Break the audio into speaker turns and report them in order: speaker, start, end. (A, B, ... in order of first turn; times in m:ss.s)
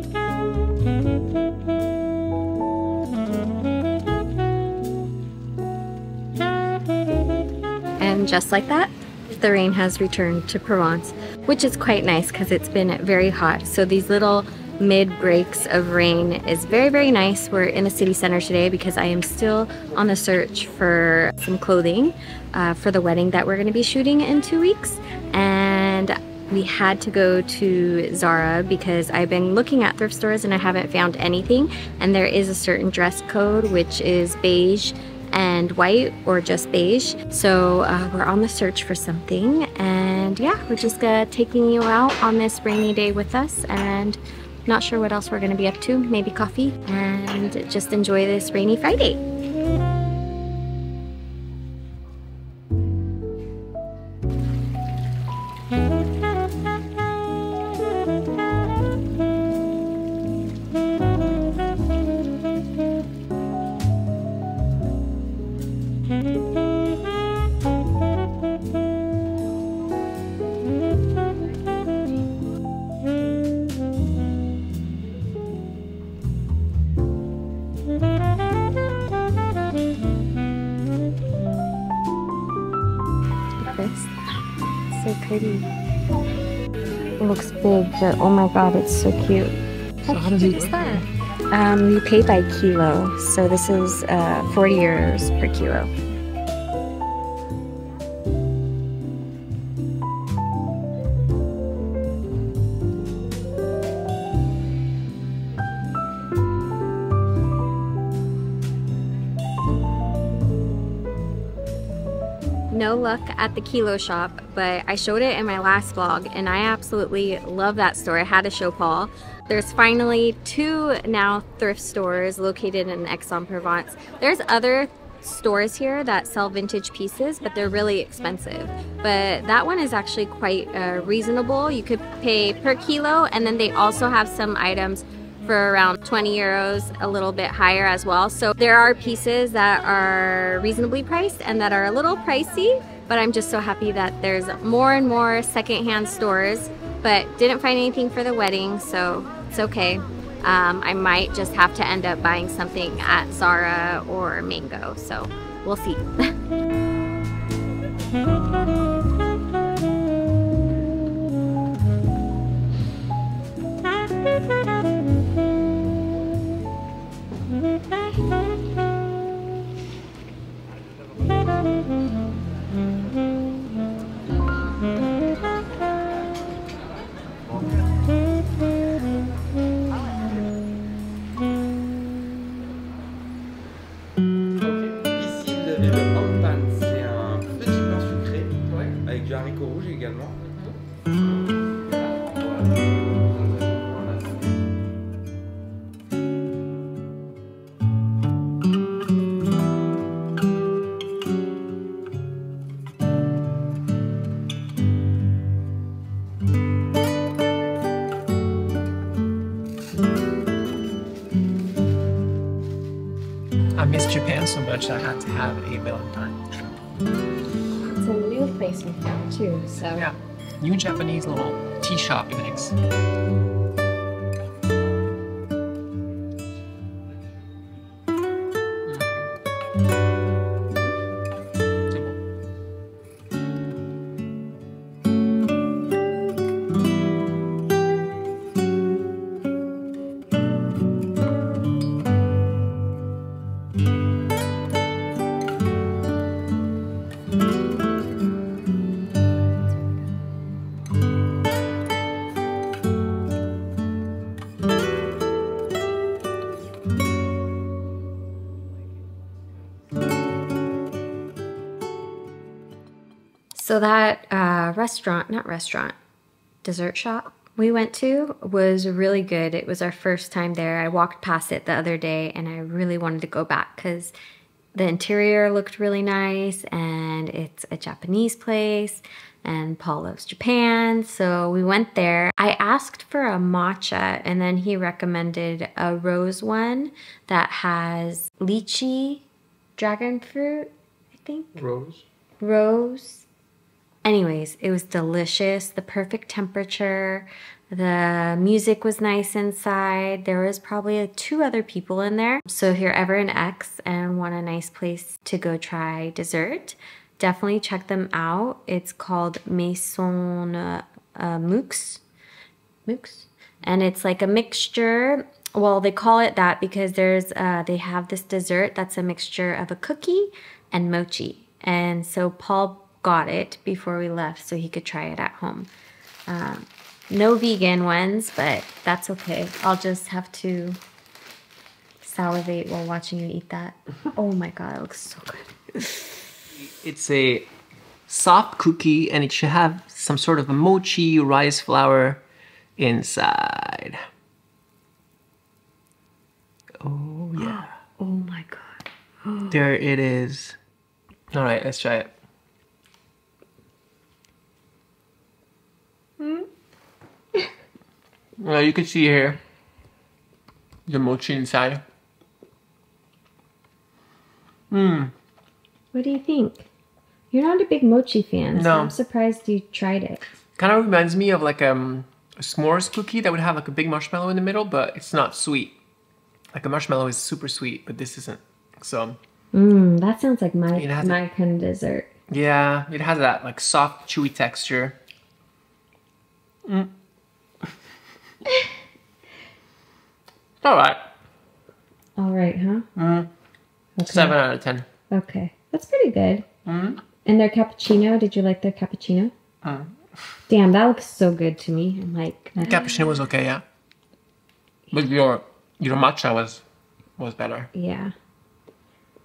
0:08.0-0:49.2 A
1:23.6-1:24.1 A
1:24.9-1:25.7 A
1:27.2-1:35.9 A
1:30.0-1:31.0 B
1:52.7-2:36.1 A
3:04.7-3:10.5 C
3:11.9-3:14.6 C
3:33.8-3:36.4 B
3:37.8-3:40.1 A
3:40.0-3:42.8 B
3:48.8-3:49.3 B
3:51.9-3:52.2 B
4:23.5-4:25.9 A
4:26.6-4:34.1 A
4:34.7-4:49.2 A
4:49.8-4:51.6 A
4:51.6-4:52.0 B
4:52.4-4:53.2 A
4:54.0-5:12.0 A
5:12.8-5:25.7 A
5:26.3-5:30.8 A
5:32.0-5:36.3 A
5:36.5-5:37.5 B
5:38.1-5:42.2 B
5:42.8-5:44.0 B
5:46.8-5:47.7 B
5:47.4-5:49.6 A
5:49.5-5:50.6 B
5:51.3-5:52.1 B
5:56.2-5:56.4 B
5:58.4-5:59.4 B
6:00.8-6:01.8 B
6:04.7-6:05.1 B
6:05.9-6:06.7 A
6:07.3-6:10.2 A
6:08.5-6:08.9 B
6:10.6-6:15.8 B
6:16.5-6:19.2 B
6:19.5-6:22.1 A
6:20.7-6:21.2 B
6:22.3-6:25.0 B
6:26.6-6:26.9 B
6:30.6-6:31.0 B
6:32.2-6:32.8 A
6:32.9-6:33.3 B
6:34.0-6:34.4 A
6:34.0-6:34.9 B
6:35.1-6:36.4 A
6:36.6-6:37.0 B
6:37.2-6:39.3 A
6:39.6-6:39.9 B
6:40.5-6:43.2 A
6:42.6-6:43.6 B
6:44.9-6:46.6 B
6:47.2-6:47.7 B
6:47.7-6:48.1 A